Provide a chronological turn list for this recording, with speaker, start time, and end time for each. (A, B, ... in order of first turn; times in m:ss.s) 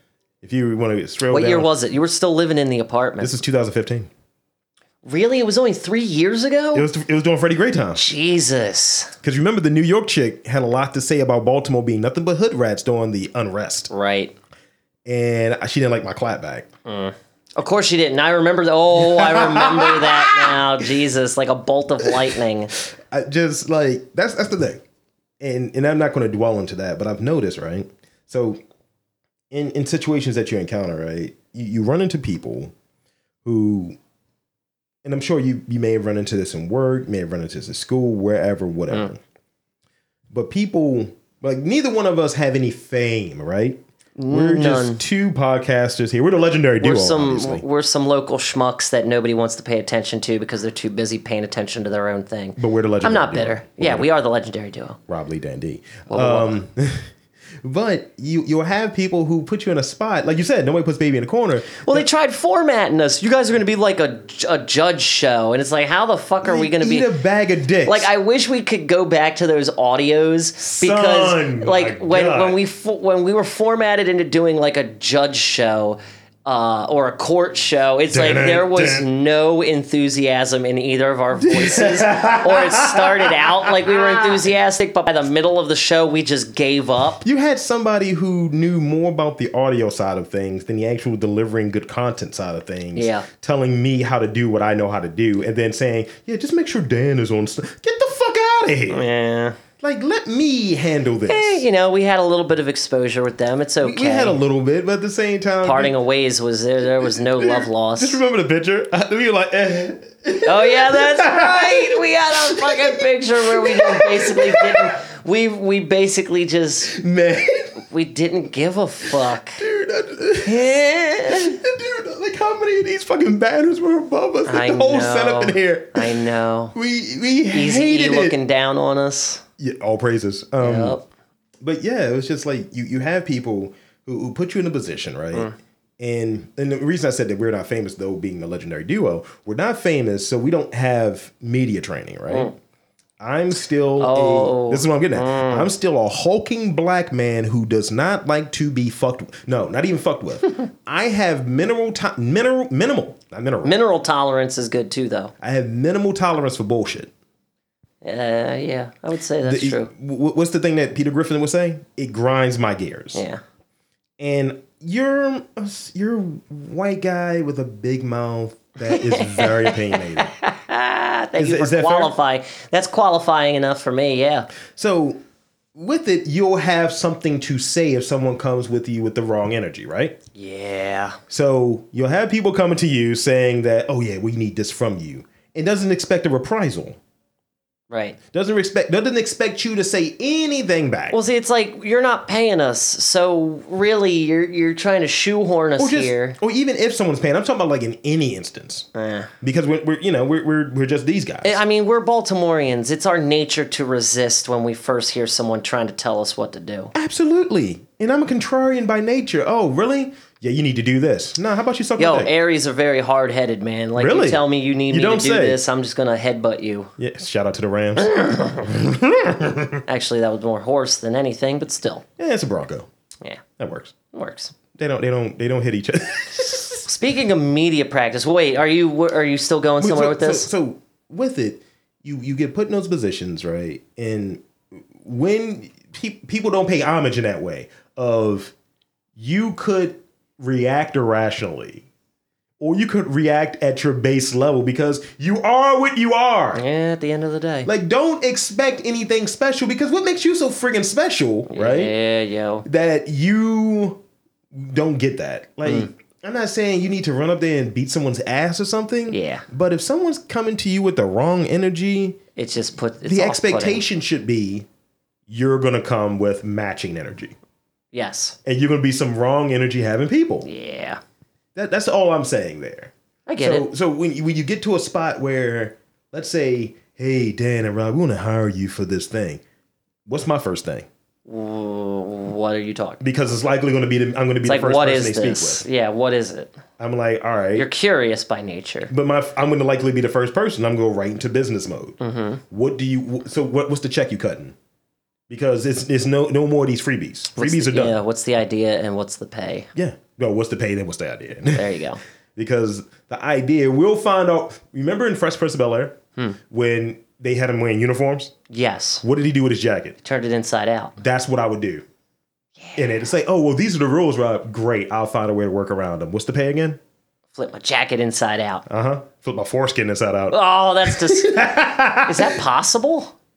0:00.4-0:01.7 A
0:01.3-0:03.3 B
0:03.2-0:04.1 A
0:05.0-0:06.9 B
0:06.7-0:08.0 A
0:07.9-0:09.1 B
0:09.2-0:13.9 A
0:13.9-0:14.3 B
0:15.1-0:16.7 A
0:16.9-0:22.7 B
0:19.0-0:20.6 A
0:22.1-0:24.8 A
0:25.4-0:28.6 A
0:29.5-0:32.7 A
0:33.4-0:34.0 A
0:35.0-0:39.2 A
0:40.3-0:47.6 A
0:44.2-0:45.0 B
0:46.8-0:55.0 B
0:52.6-0:54.1 A
0:55.1-0:57.1 A
0:56.1-0:56.6 B
0:57.6-1:02.1 A
1:01.8-1:07.1 B
1:06.4-1:08.1 A
1:07.8-1:27.2 B
1:10.6-1:12.6 A
1:18.1-1:19.1 A
1:21.4-1:24.5 A
1:27.2-1:39.1 A
1:33.0-1:33.3 B
1:38.9-1:39.6 B
1:39.8-1:41.7 A
1:41.3-1:44.4 B
1:43.8-1:46.0 A
1:45.6-1:48.2 B
1:47.1-1:55.0 A
1:50.5-1:57.0 B
1:56.8-1:57.8 A
1:57.9-1:59.6 B
1:59.3-2:00.7 A
2:00.4-2:01.6 B
2:01.3-2:06.2 A
2:04.5-2:06.8 B
2:06.7-2:08.4 A
2:07.5-2:09.4 B
2:09.6-2:11.0 A
2:10.6-2:11.0 B
2:11.6-2:22.5 A
2:22.3-2:22.5 B
2:23.2-2:33.8 A
2:24.0-2:25.7 B
2:33.6-2:35.3 B
2:35.4-2:37.1 A
2:38.0-2:39.9 B
2:39.4-2:43.2 A
2:43.1-2:43.4 B
2:44.2-2:50.3 A
2:48.8-2:54.5 B
2:51.4-2:52.1 A
2:54.7-2:55.2 A
2:55.8-3:00.2 A
3:00.3-3:01.2 B
3:01.3-3:07.0 A
3:07.9-3:08.2 B
3:08.3-3:11.2 A
3:11.1-3:16.4 B
3:15.8-3:18.9 A
3:19.0-3:19.3 B
3:19.4-3:21.6 A
3:21.4-3:26.9 B
3:26.9-3:32.3 A
3:32.0-3:36.9 B
3:34.0-3:35.6 A
3:37.0-3:39.8 A
3:38.2-3:38.6 B
3:39.9-3:42.0 B
3:42.2-3:42.9 A
3:43.6-3:44.0 A
3:44.1-3:44.5 B
3:44.7-3:46.8 A
3:46.8-3:50.5 B
3:49.8-3:54.4 A
3:55.0-3:58.5 A
3:59.2-4:01.8 A
4:02.6-4:06.6 A
4:06.5-4:07.7 B
4:07.6-4:11.9 A
4:11.5-4:12.7 B
4:12.6-4:14.0 A
4:14.5-4:22.2 A
4:19.1-4:19.4 B
4:22.4-4:23.8 B
4:23.0-4:24.7 A
4:25.3-4:27.3 A
4:27.9-4:28.4 B
4:28.4-4:30.5 A
4:30.4-4:31.0 B
4:31.5-4:39.4 A
4:33.3-4:33.7 B
4:40.1-4:40.9 A
4:41.2-4:43.0 B
4:43.0-4:45.6 A
4:44.5-4:46.5 B
4:46.8-4:47.7 A
4:47.6-4:48.9 B
4:48.9-4:52.0 A
4:52.0-4:52.4 B
4:52.5-4:54.5 A
4:55.3-4:58.0 A
4:57.4-4:59.7 B
4:59.8-5:01.8 A
5:01.5-5:02.0 B
5:02.4-5:08.3 A
5:08.5-5:09.0 B
5:09.0-5:10.0 A
5:10.0-5:10.9 B
5:11.0-5:11.8 A
5:12.6-5:13.0 B
5:12.8-5:16.8 A
5:17.3-5:18.6 B
5:18.7-5:22.4 A
5:20.3-5:21.5 B
5:22.0-5:23.1 B